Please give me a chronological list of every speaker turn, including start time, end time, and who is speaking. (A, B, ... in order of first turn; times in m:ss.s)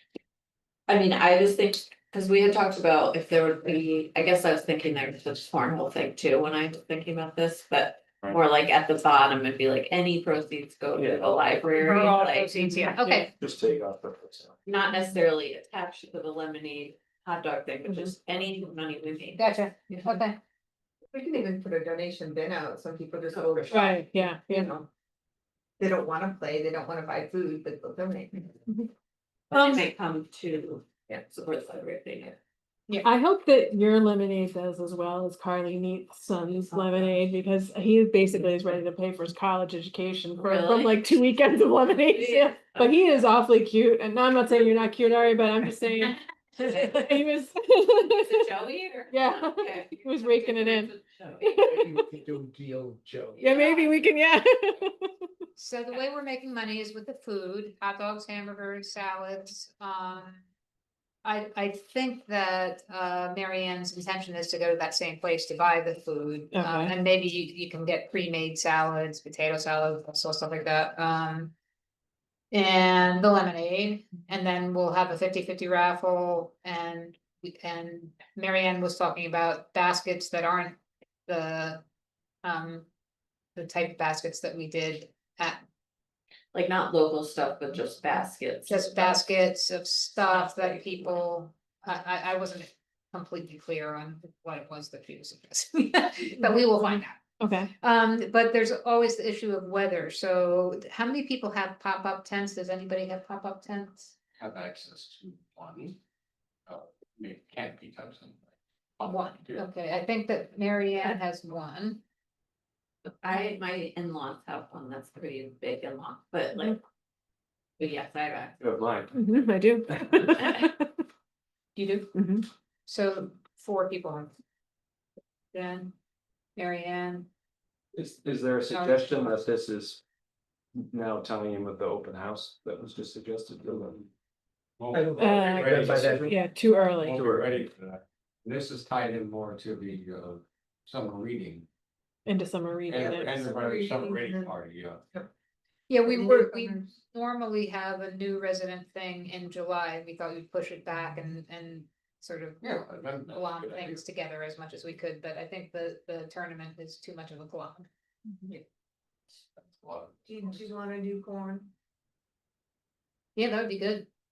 0:00.9-0:13.3 A
0:10.9-0:11.5 B
0:11.8-0:13.3 C
0:13.4-0:14.5 B
0:14.6-0:19.5 A
0:17.8-0:18.1 D
0:19.3-0:20.4 C
0:21.1-0:24.9 E
0:23.3-0:23.9 A
0:23.7-0:24.7 D
0:25.8-0:28.6 E
0:29.5-0:32.4 A
0:29.5-0:29.9 C
0:33.0-0:48.5 D
0:36.7-0:37.2 A
0:40.4-0:41.2 A
0:41.9-0:43.3 A
0:46.6-0:47.3 A
0:48.2-0:51.9 A
0:49.1-0:50.9 D
0:51.5-0:52.2 D
0:51.8-0:53.4 F
0:53.4-0:54.0 A
0:53.4-0:55.3 D
0:55.6-1:00.4 C
1:01.2-1:11.5 C
1:06.5-1:07.0 D
1:12.5-1:21.8 C
1:22.4-1:22.9 C
1:23.5-1:25.6 C
1:26.5-1:29.2 A
1:28.6-1:37.2 C
1:30.6-1:31.0 A
1:37.4-1:37.7 D
1:37.8-1:44.2 C
1:44.4-1:46.0 F
1:46.7-1:48.4 F
1:49.0-1:49.6 F
1:49.0-1:52.0 C
1:53.2-1:56.8 A
1:57.8-1:58.6 A
1:58.6-1:59.1 B
1:59.1-2:01.0 D
2:00.4-2:00.6 A
2:01.7-2:02.1 C
2:02.1-2:02.5 D
2:02.8-2:04.3 C
2:05.5-2:05.9 C
2:06.6-2:07.3 C
2:07.9-2:10.0 B
2:08.6-2:09.4 C
2:10.7-2:14.0 B
2:14.8-2:16.3 F
2:14.9-2:16.3 B
2:15.2-2:17.2 D
2:17.0-2:21.6 F
2:17.1-2:17.7 B
2:22.2-2:23.4 D
2:22.9-2:24.6 E
2:23.0-2:25.0 F
2:25.9-2:37.9 C
2:26.0-2:27.0 E
2:32.6-2:34.0 F
2:39.6-2:40.1 F
2:40.2-2:41.7 E
2:43.3-2:44.1 C